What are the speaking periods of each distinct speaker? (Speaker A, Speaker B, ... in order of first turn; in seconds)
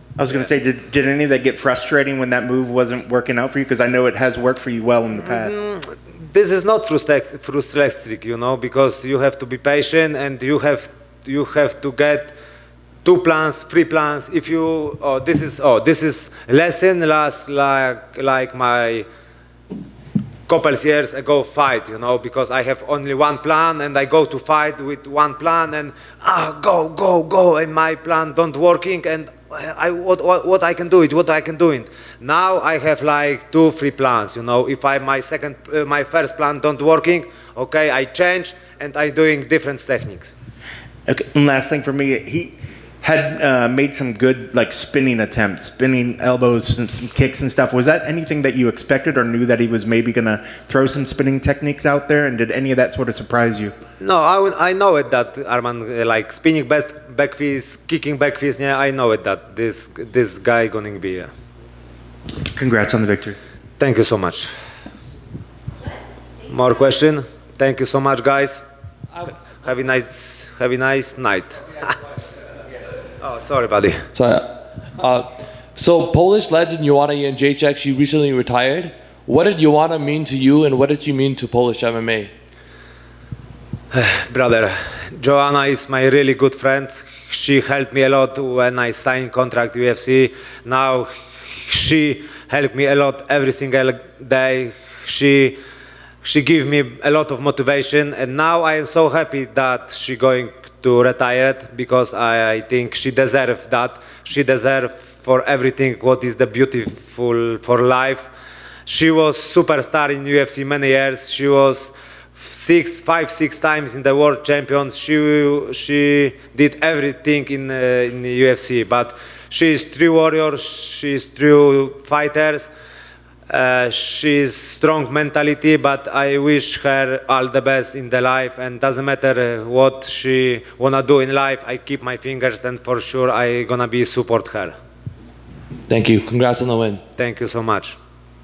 Speaker A: 0.2-5.6, 41.1-53.7, 62.5-63.4
Speaker B: 5.2-12.3, 13.0-19.1, 20.5-40.3, 54.0-61.3, 63.8-64.5, 66.5-68.6, 69.6-71.9, 73.2-74.1, 83.9-95.6, 96.2-108.3, 108.8-122.7, 123.5-134.7, 137.2-138.0
Speaker C: 74.1-82.3, 135.9-137.0